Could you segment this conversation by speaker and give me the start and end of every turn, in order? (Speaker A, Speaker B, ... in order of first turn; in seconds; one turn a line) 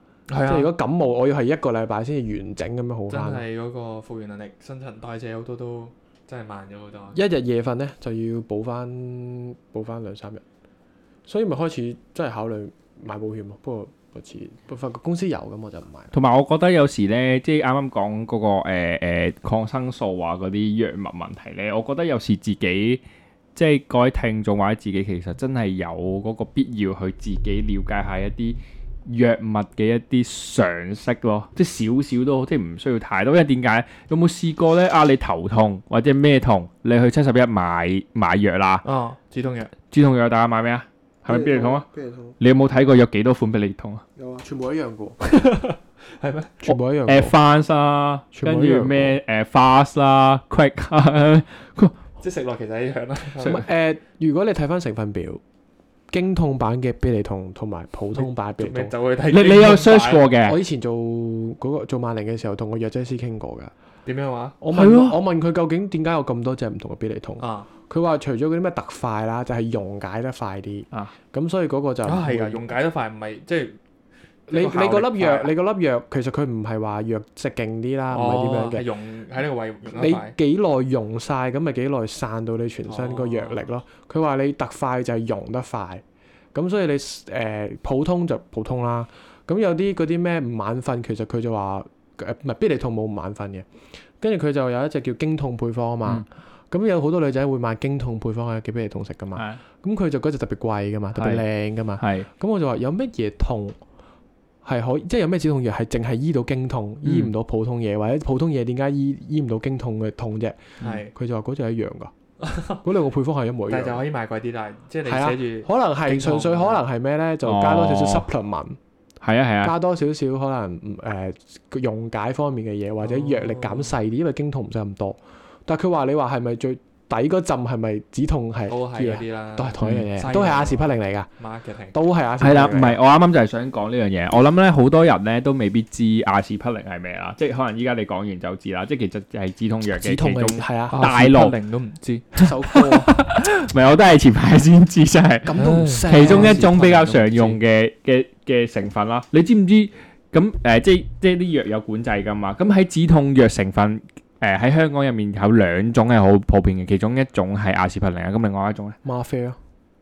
Speaker A: 0.3-0.7
Speaker B: 0.4-3.4
Speaker A: 3.1-7.2
Speaker B: 7.1-10.4
Speaker B: 11.3-16.1
Speaker C: 16.1-23.0
Speaker C: 23.5-38.8
Speaker A: 38.8-39.7
Speaker C: 39.9-41.9
Speaker B: 41.2-42.4
Speaker C: 42.4-44.0
Speaker B: 44.1-45.2
Speaker A: 45.2-46.6
Speaker B: 46.6-47.4
Speaker C: 47.0-52.0
Speaker B: 48.3-49.2
Speaker A: 52.2-53.6
Speaker B: 53.4-55.4
Speaker B: 56.1-58.9
Speaker A: 58.2-60.3
Speaker C: 59.3-60.6
Speaker B: 60.4-63.7
Speaker A: 64.0-64.5
Speaker B: 64.6-72.7
Speaker C: 64.7-65.2
Speaker A: 67.4-67.7
Speaker A: 72.0-73.8
Speaker B: 74.5-78.9
Speaker A: 74.5-75.5
Speaker A: 78.1-80.3
Speaker B: 79.9-86.0
Speaker A: 82.8-83.7
Speaker B: 86.5-93.7
Speaker B: 94.2-103.8
Speaker C: 101.2-101.4
Speaker C: 102.0-102.3
Speaker B: 104.6-112.1
Speaker C: 107.0-107.3
Speaker A: 110.8-111.1
Speaker A: 112.4-112.8
Speaker B: 112.8-114.0
Speaker A: 113.7-116.8
Speaker B: 115.0-118.8
Speaker C: 117.4-118.3
Speaker C: 119.2-119.7
Speaker B: 119.6-131.3
Speaker A: 123.0-124.0
Speaker A: 128.7-131.9
Speaker C: 129.8-130.1
Speaker B: 131.9-133.0
Speaker C: 132.4-141.5
Speaker B: 139.9-141.0
Speaker A: 140.9-143.0
Speaker B: 142.3-143.1
Speaker C: 142.7-159.0
Speaker B: 145.4-146.6
Speaker A: 145.5-147.6
Speaker B: 159.0-159.6